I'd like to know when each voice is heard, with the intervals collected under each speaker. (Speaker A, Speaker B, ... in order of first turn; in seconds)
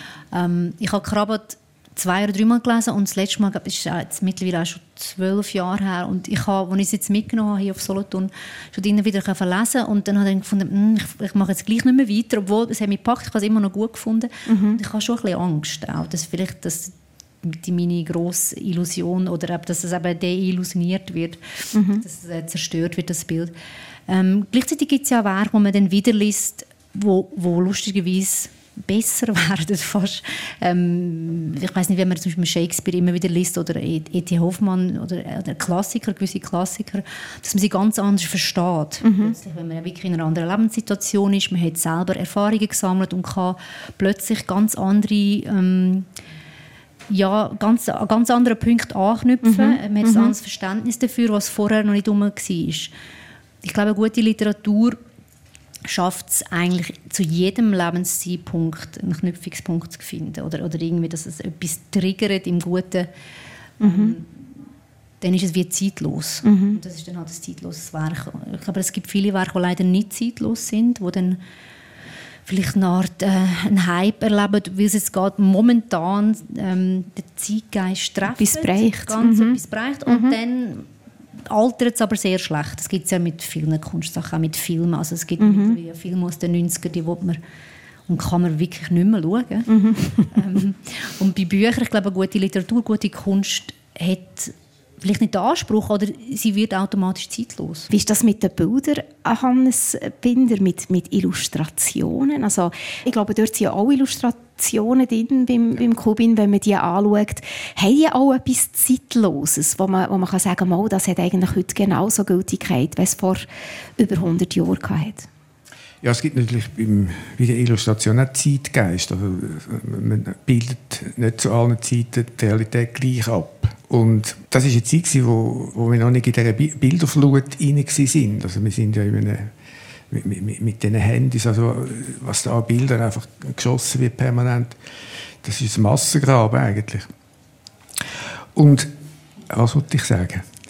Speaker A: 0.3-23.5, 24.1-46.1, 47.1-52.9, 53.6-55.0, 55.9-63.1, 63.8-64.5, 65.2-71.4, 72.5-80.9, 81.5-87.4, 88.1-89.7, 90.3-97.9
Speaker B: 14.5-14.8, 21.7-22.0, 39.0-39.4, 49.4-50.3, 63.8-64.2, 66.4-66.8, 78.3-80.3, 85.4-85.8, 89.7-90.3, 97.9-113.5, 114.0-115.3
Speaker C: 116.0-129.5, 130.1-134.8, 135.4-137.1, 138.6-138.9, 139.5-140.5